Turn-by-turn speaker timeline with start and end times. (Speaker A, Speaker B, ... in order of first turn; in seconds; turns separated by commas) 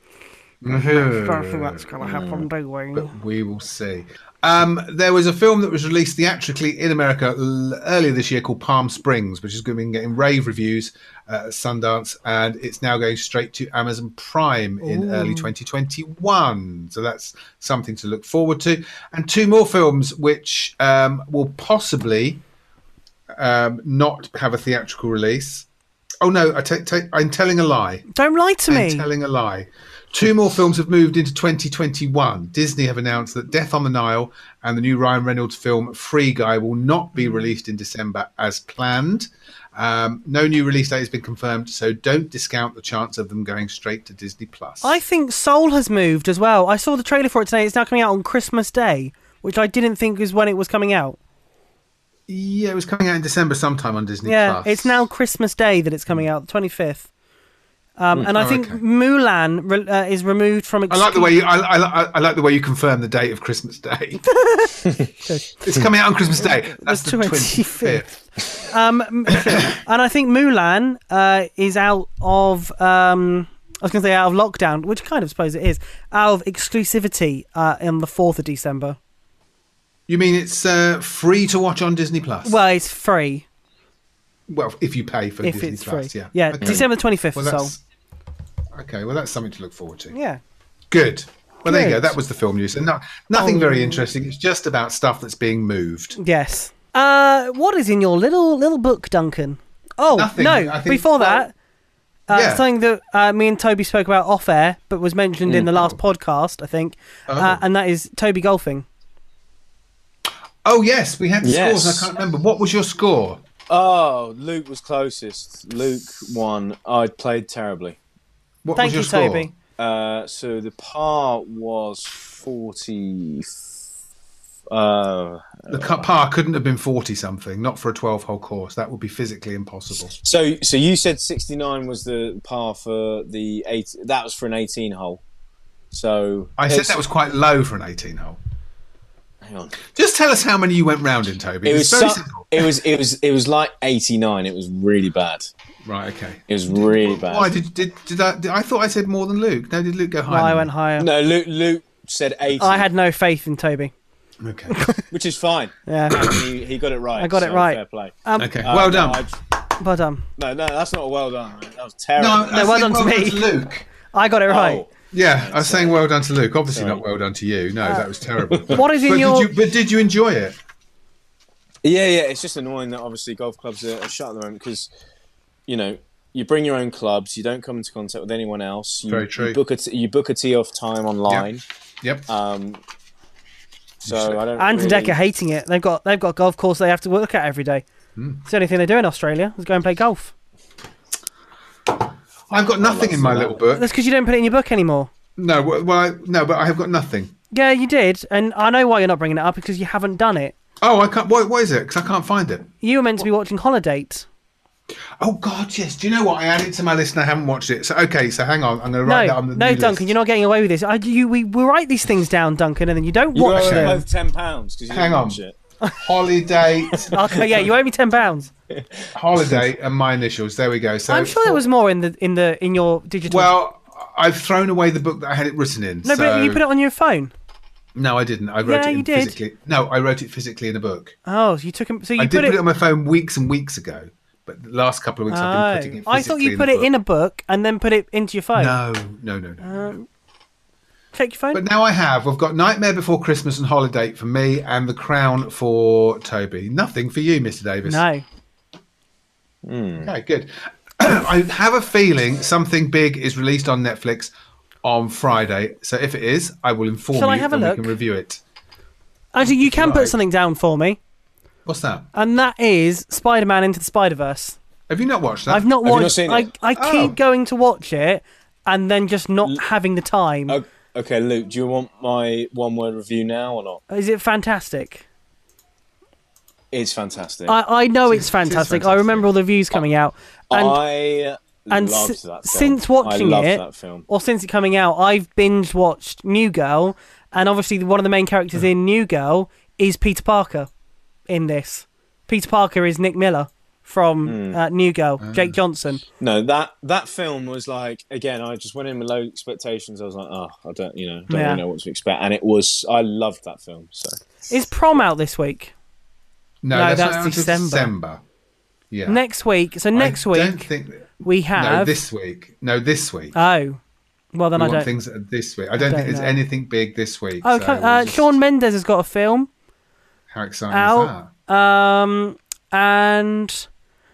Speaker A: 0.6-1.9, Speaker B: 0.7-3.1, Speaker C: 2.0-2.4, Speaker A: 2.9-22.4, Speaker B: 14.8-15.5, Speaker A: 23.3-25.7, Speaker A: 26.2-28.1, Speaker B: 28.1-29.1, Speaker A: 28.7-45.0, Speaker B: 44.8-51.2, Speaker A: 52.3-55.0, Speaker B: 54.2-57.1, Speaker B: 58.0-61.4, Speaker A: 58.2-58.8, Speaker A: 60.9-64.2, Speaker B: 64.3-65.5, Speaker A: 65.6-68.1, Speaker B: 66.4-79.0, Speaker A: 69.3-69.7, Speaker A: 80.1-82.6, Speaker B: 82.4-83.5, Speaker A: 84.5-87.8, Speaker B: 85.4-87.7, Speaker A: 88.7-90.1, Speaker B: 90.1-90.4, Speaker A: 90.9-96.2, Speaker B: 91.7-92.1, Speaker B: 93.3-94.1, Speaker B: 96.2-101.5, Speaker A: 100.1-101.4, Speaker B: 102.3-108.8, Speaker A: 102.3-102.6, Speaker C: 105.5-105.7, Speaker A: 107.3-107.6, Speaker A: 110.6-113.4, Speaker C: 111.4-112.1, Speaker C: 113.7-118.0, Speaker A: 118.6-119.5, Speaker B: 118.8-119.5, Speaker C: 119.8-123.6, Speaker C: 124.7-126.0, Speaker A: 125.7-130.1, Speaker C: 130.2-135.2, Speaker C: 135.9-137.0, Speaker A: 136.6-138.4, Speaker C: 139.4-139.8, Speaker A: 139.9-142.7, Speaker C: 141.6-145.5, Speaker A: 145.8-150.7, Speaker C: 146.5-147.6, Speaker B: 150.3-151.1, Speaker C: 151.0-152.8, Speaker B: 152.6-153.9, Speaker A: 154.4-154.7, Speaker B: 154.7-155.0, Speaker C: 155.1-159.4, Speaker B: 155.9-156.3, Speaker B: 157.2-158.5, Speaker A: 158.4-159.2, Speaker B: 159.8-160.2, Speaker C: 160.4-162.6, Speaker A: 162.2-163.8, Speaker B: 162.5-163.5, Speaker B: 164.1-164.8, Speaker C: 164.5-166.0, Speaker A: 165.1-170.6, Speaker C: 166.7-167.0, Speaker C: 168.5-168.8, Speaker B: 168.7-169.5, Speaker C: 171.8-174.9, Speaker C: 175.7-181.6, Speaker A: 179.1-179.6, Speaker A: 182.0-182.3, Speaker C: 182.3-182.8, Speaker A: 184.0-184.4, Speaker C: 184.0-185.2, Speaker B: 184.6-187.8, Speaker A: 188.2-188.4, Speaker B: 188.4-190.3, Speaker A: 192.5-193.9, Speaker C: 192.8-193.6, Speaker B: 193.7-195.1, Speaker A: 195.4-197.3, Speaker B: 197.5-200.5, Speaker A: 200.8-202.7, Speaker B: 202.8-204.3, Speaker A: 205.2-210.1, Speaker B: 209.0-214.0, Speaker C: 213.3-215.6, Speaker A: 213.5-214.0, Speaker A: 214.9-215.4, Speaker A: 216.0-217.1, Speaker C: 216.9-217.4, Speaker B: 217.0-218.5, Speaker C: 218.7-219.6, Speaker A: 219.1-221.6, Speaker B: 221.1-223.5, Speaker A: 223.3-226.6, Speaker B: 226.0-227.3, Speaker A: 227.9-231.2, Speaker B: 228.6-229.4, Speaker B: 231.2-232.6, Speaker A: 232.2-236.9, Speaker B: 235.3-238.8, Speaker A: 238.5-239.9, Speaker B: 239.6-240.1, Speaker B: 241.1-241.6, Speaker A: 241.5-248.0, Speaker B: 247.8-248.2, Speaker C: 249.6-250.1, Speaker A: 250.0-254.3, Speaker A: 254.8-258.4, Speaker B: 257.1-257.9, Speaker B: 259.3-261.0, Speaker A: 259.4-260.2, Speaker A: 261.6-262.1, Speaker B: 262.1-264.6, Speaker A: 264.9-265.8, Speaker B: 265.5-270.6, Speaker C: 265.8-266.5, Speaker A: 266.7-267.1, Speaker C: 270.5-273.8, Speaker B: 273.9-275.0, Speaker C: 276.7-277.6, Speaker B: 277.5-280.8, Speaker C: 278.1-279.8, Speaker C: 280.5-284.0, Speaker B: 281.7-290.7, Speaker B: 291.3-296.0, Speaker C: 294.2-294.6, Speaker A: 295.2-295.6, Speaker C: 296.2-304.4, Speaker B: 301.3-301.6, Speaker B: 304.5-305.7, Speaker A: 306.6-308.2, Speaker B: 306.7-307.9, Speaker A: 308.9-309.2, Speaker B: 309.1-310.7, Speaker A: 309.9-313.3, Speaker B: 311.2-311.9, Speaker B: 313.3-313.8, Speaker B: 314.3-314.9, Speaker A: 314.5-318.4, Speaker B: 315.8-316.4, Speaker B: 317.4-319.5, Speaker A: 320.3-321.3, Speaker B: 320.7-323.7